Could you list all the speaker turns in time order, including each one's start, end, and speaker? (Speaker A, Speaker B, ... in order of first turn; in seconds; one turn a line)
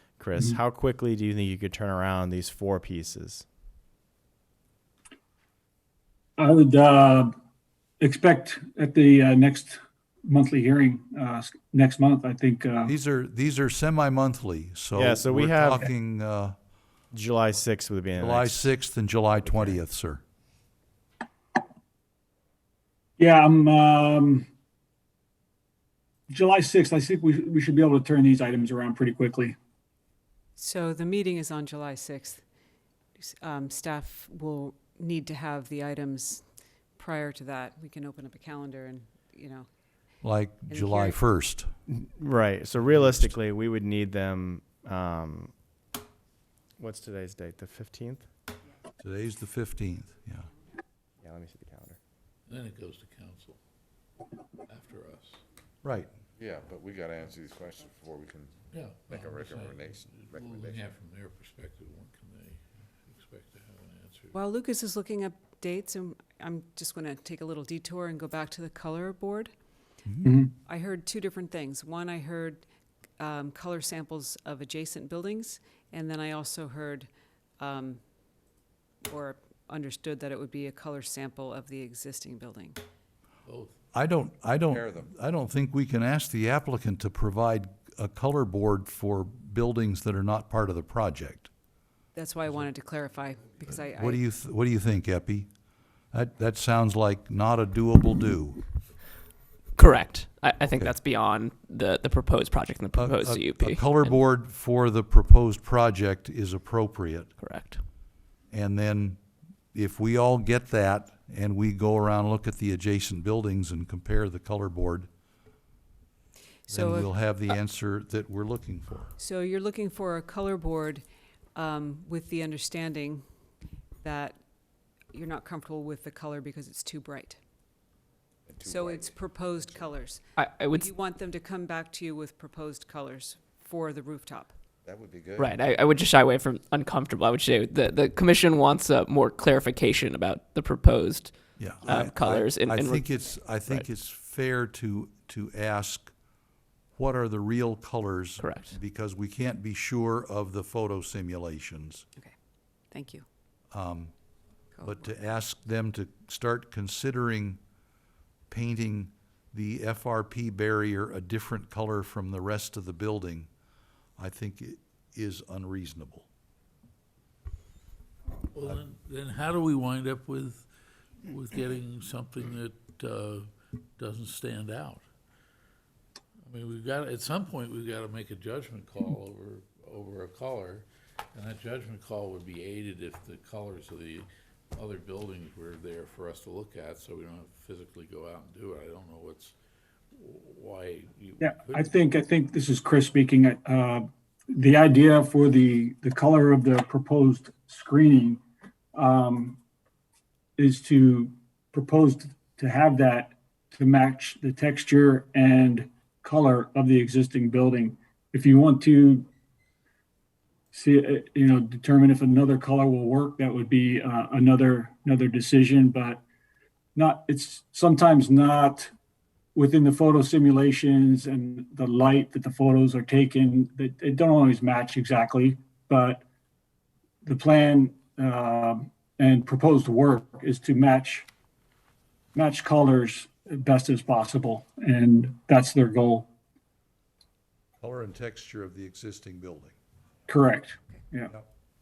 Speaker A: 0.2-3.5
Speaker B: 6.4-7.3
Speaker B: 8.0-12.9
Speaker C: 12.9-16.6
Speaker A: 14.9-15.9
Speaker A: 17.1-18.7
Speaker C: 18.2-20.2
Speaker A: 19.4-19.8
Speaker B: 23.2-24.5
Speaker B: 26.3-29.6
Speaker D: 30.6-32.4
Speaker D: 33.2-36.5
Speaker D: 37.0-39.7
Speaker C: 40.2-41.7
Speaker D: 40.7-41.2
Speaker A: 41.9-45.5
Speaker C: 42.9-43.3
Speaker A: 46.8-48.3
Speaker C: 49.0-50.5
Speaker A: 51.2-52.0
Speaker E: 52.5-53.6
Speaker E: 54.7-55.4
Speaker C: 55.8-56.1
Speaker F: 56.4-58.6
Speaker E: 58.7-64.3
Speaker F: 59.1-60.9
Speaker D: 64.3-69.5
Speaker B: 70.2-70.5
Speaker D: 70.6-72.7
Speaker D: 73.2-78.0
Speaker D: 79.0-82.8
Speaker E: 83.5-83.8
Speaker C: 83.9-91.5
Speaker F: 84.7-85.1
Speaker D: 92.2-94.2
Speaker C: 94.0-95.5
Speaker C: 96.1-98.6
Speaker G: 99.8-104.1
Speaker C: 103.0-107.3
Speaker G: 107.4-107.8
Speaker C: 108.5-109.2
Speaker C: 109.7-115.1
Speaker D: 116.7-117.1
Speaker C: 116.7-119.1
Speaker D: 119.2-123.2
Speaker D: 124.0-124.4
Speaker D: 125.1-127.4
Speaker F: 128.5-130.0
Speaker D: 128.6-134.6
Speaker G: 130.4-130.9
Speaker F: 134.8-135.8
Speaker G: 135.4-143.0
Speaker C: 141.6-146.1
Speaker C: 147.0-152.1
Speaker G: 148.4-148.7
Speaker D: 152.9-153.3
Speaker C: 153.7-154.1
Speaker D: 154.8-155.1
Speaker C: 154.8-157.6
Speaker C: 158.5-163.5
Speaker C: 164.2-166.3
Speaker E: 168.5-170.7
Speaker E: 171.2-175.0
Speaker E: 176.4-189.6
Speaker E: 190.1-191.9
Speaker B: 191.4-198.4
Speaker B: 198.9-199.6
Speaker B: 200.6-209.3
Speaker B: 210.7-216.2
Speaker B: 216.9-218.9
Speaker B: 219.6-226.2
Speaker B: 227.2-231.3
Speaker B: 232.3-236.3
Speaker C: 237.8-239.8
Speaker B: 240.3-241.3